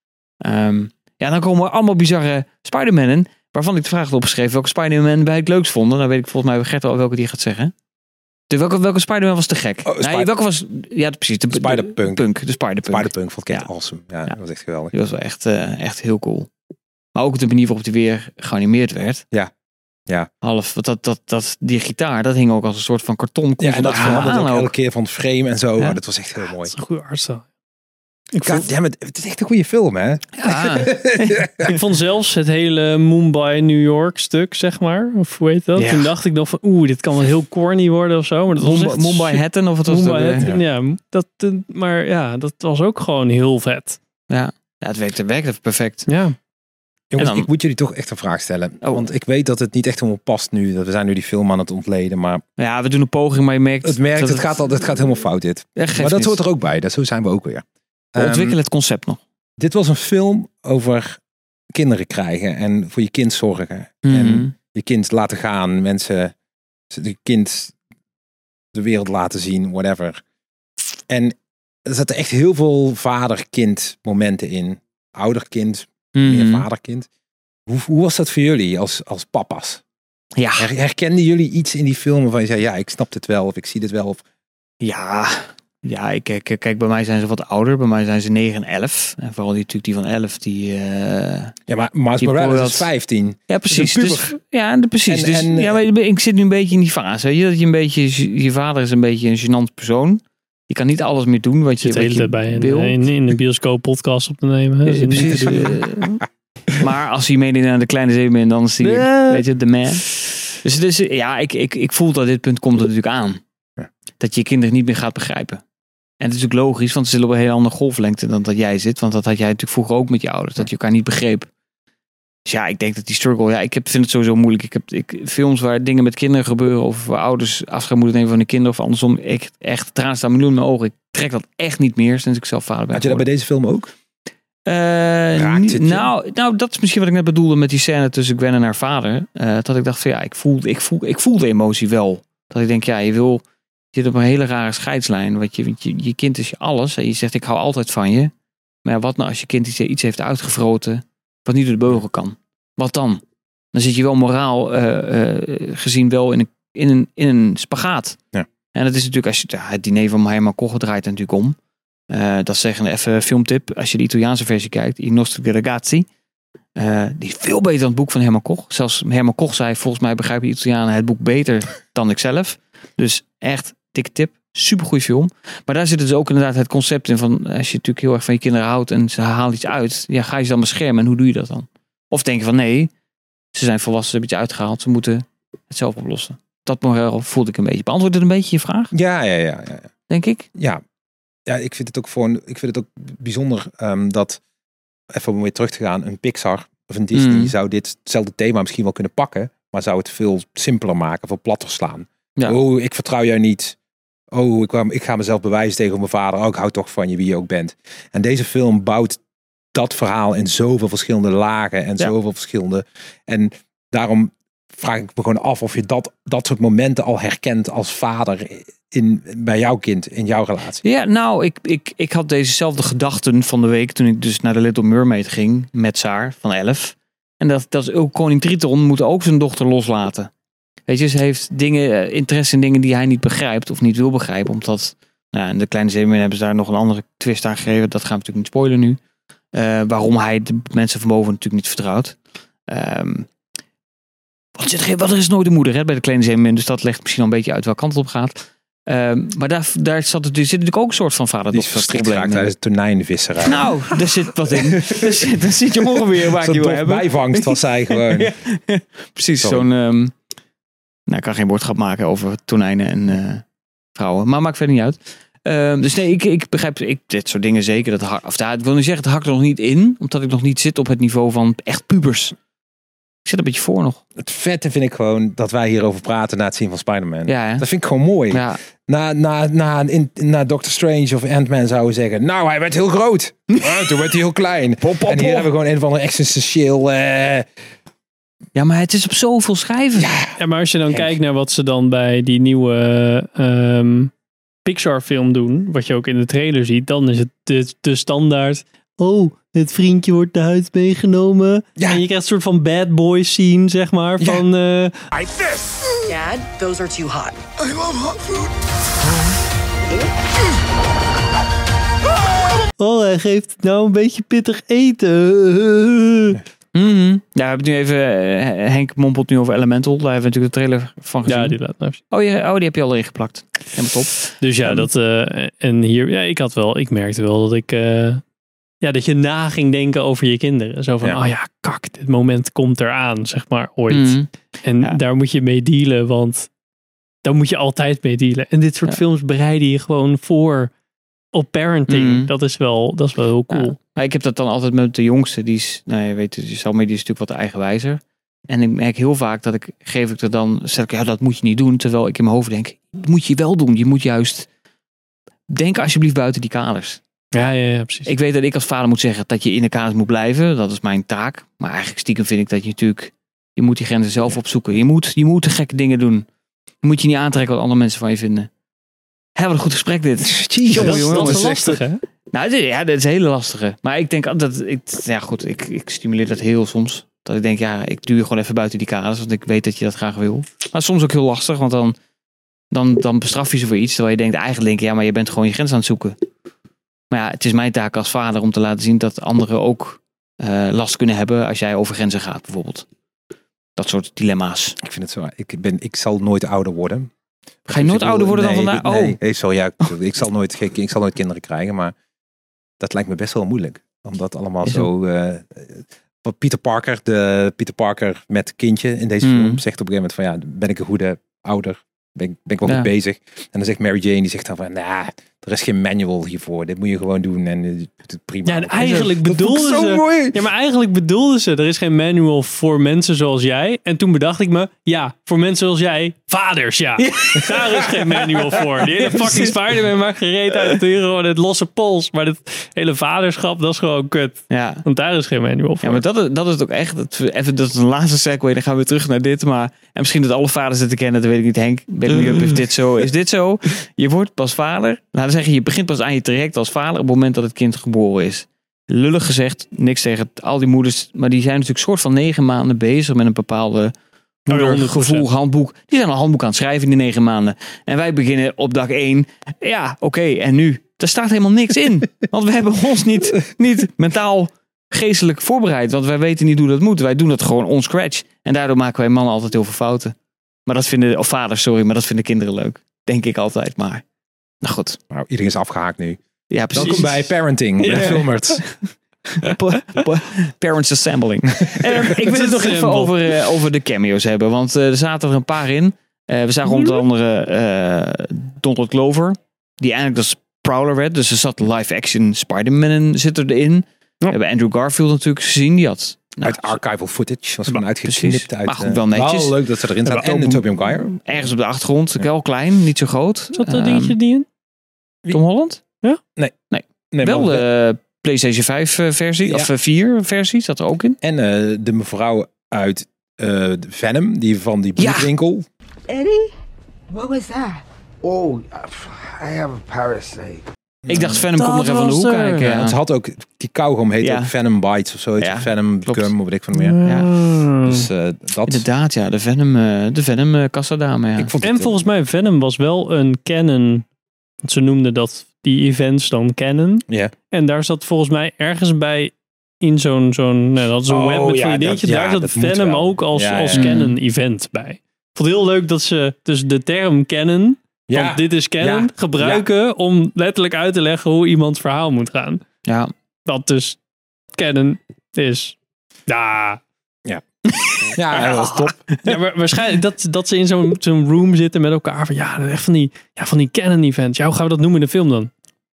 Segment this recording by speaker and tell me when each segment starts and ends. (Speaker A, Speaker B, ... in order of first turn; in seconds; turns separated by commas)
Speaker A: 0.4-7.7, Speaker A: 8.5-13.7, Speaker B: 9.8-10.3, Speaker B: 11.5-12.2, Speaker B: 12.9-14.9, Speaker A: 14.9-16.5, Speaker A: 17.1-19.2, Speaker A: 20.4-24.7, Speaker B: 23.6-26.7, Speaker C: 26.6-27.4, Speaker C: 28.3-28.7, Speaker B: 28.4-31.7, Speaker A: 30.4-31.4, Speaker C: 31.6-44.0, Speaker A: 35.8-36.1, Speaker A: 38.6-40.5, Speaker A: 44.3-46.1, Speaker C: 46.1-46.4, Speaker B: 47.1-52.4, Speaker A: 47.2-47.5, Speaker A: 52.6-54.5, Speaker B: 53.8-58.6, Speaker A: 55.8-56.4, Speaker A: 58.1-59.2, Speaker B: 59.6-61.2, Speaker B: 61.7-66.3, Speaker A: 64.0-64.5, Speaker B: 66.9-67.7, Speaker B: 68.7-70.2, Speaker B: 71.1-77.1, Speaker A: 76.1-76.7, Speaker B: 77.7-79.8, Speaker A: 80.3-80.7, Speaker B: 80.6-84.2, Speaker A: 84.8-91.5, Speaker B: 91.7-94.3, Speaker A: 92.2-92.9, Speaker A: 93.5-103.0, Speaker B: 95.1-95.8, Speaker C: 101.8-106.1, Speaker A: 104.8-106.2, Speaker B: 105.1-105.8, Speaker A: 106.7-113.4, Speaker C: 108.8-109.4, Speaker A: 114.2-115.6, Speaker A: 116.2-121.5, Speaker A: 122.5-133.3, Speaker B: 132.9-133.9, Speaker A: 134.7-143.4, Speaker B: 135.3-136.1, Speaker A: 143.9-148.3, Speaker A: 148.8-153.2, Speaker A: 153.7-158.2, Speaker A: 158.7-161.6, Speaker A: 162.1-166.1, Speaker A: 166.8-182.9, Speaker A: 183.5-188.9, Speaker B: 188.9-189.9, Speaker A: 190.1-190.5, Speaker B: 190.5-190.8, Speaker B: 191.5-194.4, Speaker B: 195.1-203.8, Speaker A: 197.1-197.5, Speaker B: 204.3-209.2, Speaker B: 209.7-220.8, Speaker A: 220.8-230.3, Speaker A: 230.9-239.0, Speaker A: 239.5-242.2, Speaker A: 242.7-243.3, Speaker A: 244.6-252.5, Speaker B: 251.5-258.3, Speaker A: 253.4-260.1, Speaker B: 259.4-259.7, Speaker A: 261.1-263.4, Speaker A: 263.9-272.4, Speaker A: 273.2-274.0, Speaker B: 274.2-287.5, Speaker A: 277.3-277.6, Speaker A: 278.3-278.6, Speaker A: 283.5-283.8, Speaker A: 284.8-285.5, Speaker A: 288.5-290.1, Speaker B: 289.9-290.4, Speaker C: 290.4-294.1, Speaker B: 290.9-291.2, Speaker C: 294.6-305.0, Speaker B: 301.8-302.0, Speaker B: 304.2-304.4, Speaker D: 306.1-307.4, Speaker C: 312.8-316.4, Speaker A: 316.7-321.6, Speaker C: 321.2-322.0, Speaker A: 322.1-324.9, Speaker C: 324.4-328.2, Speaker C: 328.8-336.5, Speaker A: 333.9-334.3, Speaker C: 337.2-340.7, Speaker C: 341.3-343.8, Speaker A: 341.9-342.3, Speaker A: 343.5-354.5, Speaker A: 355.5-357.0, Speaker C: 357.3-358.1, Speaker A: 358.1-366.2, Speaker A: 366.8-368.5, Speaker A: 369.4-371.5, Speaker B: 370.2-371.8, Speaker C: 370.8-372.0, Speaker A: 372.3-381.9, Speaker A: 382.7-386.1, Speaker A: 387.1-392.9, Speaker A: 393.8-394.8, Speaker B: 394.8-397.1, Speaker B: 397.6-401.9, Speaker A: 397.7-399.2, Speaker B: 402.8-420.4, Speaker A: 409.2-409.6, Speaker A: 412.6-412.9, Speaker C: 418.4-436.0, Speaker A: 427.0-428.0, Speaker A: 428.6-429.5, Speaker A: 434.5-434.8, Speaker A: 435.8-453.9, Speaker A: 454.5-474.0, Speaker C: 454.5-455.3, Speaker A: 474.6-475.0, Speaker B: 475.1-476.2, Speaker A: 476.5-477.3, Speaker B: 476.7-478.7, Speaker C: 476.8-477.1, Speaker C: 477.8-478.4, Speaker A: 479.4-496.8, Speaker C: 482.1-483.1, Speaker C: 486.6-487.0, Speaker B: 496.4-501.5, Speaker A: 498.0-504.1, Speaker C: 503.6-504.4, Speaker A: 505.3-505.8, Speaker A: 506.7-511.2, Speaker B: 507.1-507.6, Speaker B: 509.4-509.7, Speaker B: 511.2-515.7, Speaker D: 516.1-516.4, Speaker E: 517.1-517.5, Speaker D: 517.3-517.8, Speaker E: 518.2-520.6, Speaker B: 521.0-521.4, Speaker A: 521.1-523.0, Speaker C: 521.5-522.7, Speaker B: 522.6-527.0, Speaker A: 524.2-524.5, Speaker A: 525.4-526.3, Speaker C: 526.7-528.1, Speaker A: 527.0-527.3, Speaker B: 527.8-528.9, Speaker A: 528.6-531.5, Speaker B: 531.4-532.0, Speaker C: 531.6-534.0, Speaker C: 534.6-552.6, Speaker B: 537.1-537.3, Speaker B: 541.1-543.9, Speaker A: 543.7-544.1, Speaker B: 548.1-549.1, Speaker A: 552.9-553.1, Speaker C: 553.5-554.0, Speaker C: 554.5-555.7, Speaker C: 556.3-556.8, Speaker A: 557.7-558.1, Speaker B: 558.0-559.0, Speaker C: 559.2-565.5